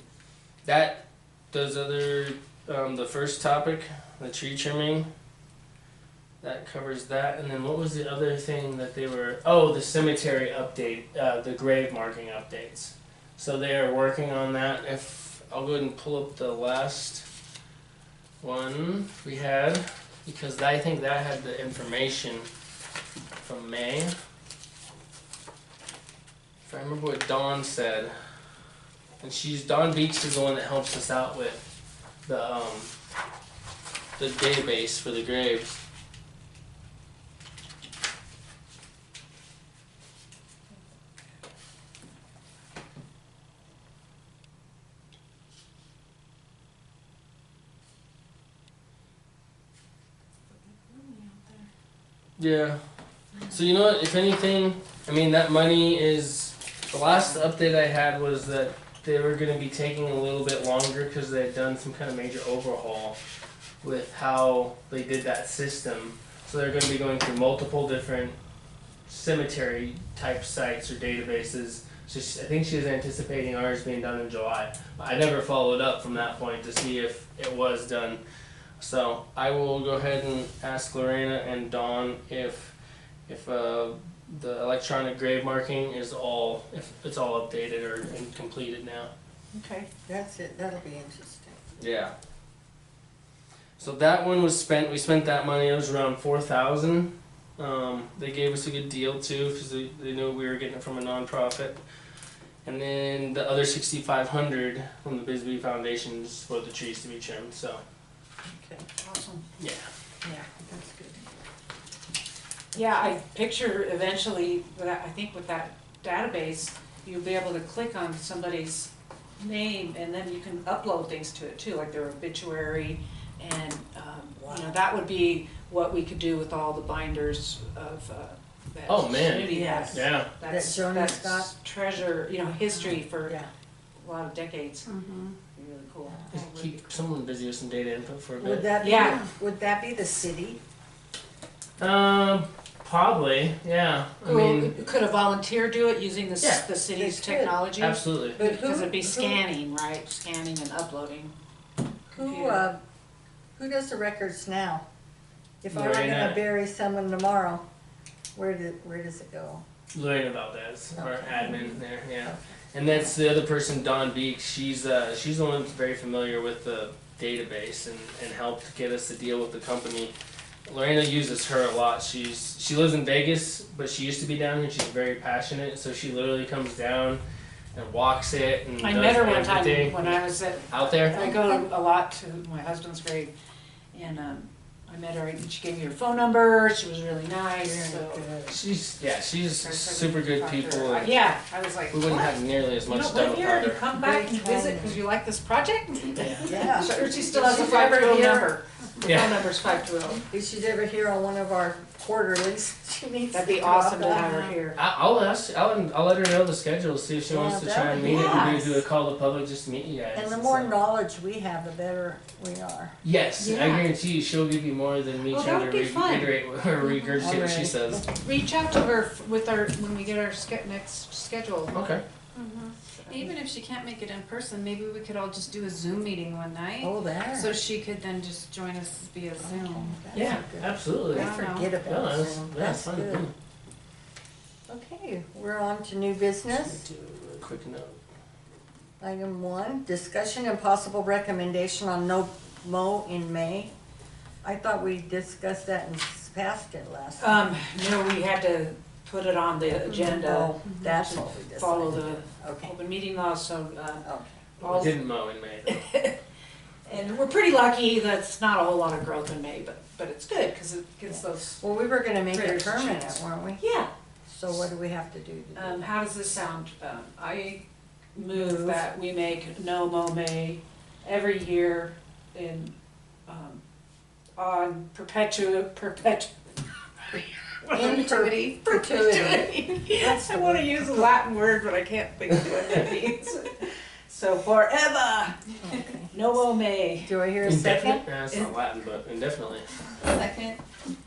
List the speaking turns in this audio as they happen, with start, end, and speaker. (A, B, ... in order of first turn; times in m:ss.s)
0:00.6-0:05.1 A
0:06.4-0:17.3 A
0:18.4-0:22.5 A
0:23.4-0:24.2 A
0:26.6-0:28.1 A
0:29.2-0:31.6 A
0:32.2-0:32.9 A
0:34.2-0:35.8 A
0:50.7-0:51.7 B
0:52.4-0:52.8 A
0:53.5-1:03.2 A
0:57.1-0:57.4 B
1:03.8-1:08.4 A
1:09.1-1:18.2 A
1:18.8-1:22.8 A
1:23.3-1:29.1 A
1:29.5-1:29.9 B
1:30.1-1:31.6 C
1:31.8-1:32.1 A
1:33.8-1:41.8 A
1:42.6-1:47.8 A
1:48.4-1:48.9 C
1:49.0-1:49.5 B
1:49.6-1:49.9 A
1:50.2-1:51.3 C
1:52.7-2:13.4 B
2:04.4-2:04.7 C
2:08.9-2:10.3 A
2:09.5-2:11.5 C
2:13.2-2:13.5 C
2:14.0-2:14.9 B
2:14.9-2:15.4 D
2:15.5-2:16.9 B
2:16.3-2:18.7 A
2:18.4-2:20.6 C
2:18.8-2:19.3 B
2:21.8-2:24.9 A
2:24.2-2:31.4 B
2:26.4-2:26.7 A
2:27.0-2:27.6 C
2:27.8-2:28.4 A
2:28.4-2:29.4 C
2:32.1-2:32.7 B
2:32.1-2:32.8 C
2:33.6-2:34.8 C
2:35.6-2:37.6 C
2:35.7-2:36.4 A
2:38.4-2:39.6 C
2:39.9-2:50.1 A
2:41.0-2:43.1 C
2:50.7-2:57.2 A
2:57.7-3:01.3 A
2:58.8-3:03.3 B
3:01.1-3:01.7 C
3:03.9-3:08.3 B
3:07.6-3:08.6 C
3:08.5-3:11.2 A
3:09.6-3:20.2 B
3:11.9-3:13.8 A
3:14.0-3:15.0 C
3:16.2-3:16.6 A
3:16.4-3:18.5 C
3:16.9-3:17.2 D
3:19.0-3:19.4 A
3:20.3-3:24.5 C
3:23.3-3:24.8 B
3:24.8-3:30.7 A
3:27.3-3:28.8 C
3:27.9-3:28.6 B
3:30.1-3:33.0 C
3:33.0-3:38.1 A
3:33.4-3:33.9 D
3:35.3-3:36.4 B
3:36.8-3:37.2 D
3:37.2-3:38.0 C
3:38.1-3:41.9 B
3:41.7-3:42.0 A
3:42.3-3:50.0 D
3:43.0-3:43.2 B
3:46.8-3:47.6 C
3:49.4-3:53.3 C
3:50.1-3:50.4 B
3:50.1-3:53.3 A
3:51.1-3:51.7 D
3:54.7-3:56.8 C
3:56.6-3:58.0 A
3:59.0-4:03.7 C
4:04.4-4:07.4 C
4:07.2-4:14.1 B
4:09.9-4:12.8 C
4:14.0-4:14.8 C
4:14.6-4:15.0 B
4:14.6-4:15.8 A
4:15.7-4:16.2 B
4:16.9-4:21.6 B
4:21.1-4:23.6 C
4:22.2-4:23.9 B
4:24.3-4:25.9 C
4:25.6-4:32.8 B
4:28.4-4:28.8 C
4:33.3-4:33.6 B
4:34.4-4:36.3 B
4:37.1-4:38.0 B
4:37.7-4:39.0 D
4:37.7-4:41.0 C
4:38.6-4:45.5 B
4:45.6-4:46.3 C
4:46.1-4:47.1 B
4:47.0-4:48.0 C
4:47.4-4:49.7 A
4:50.0-4:50.6 D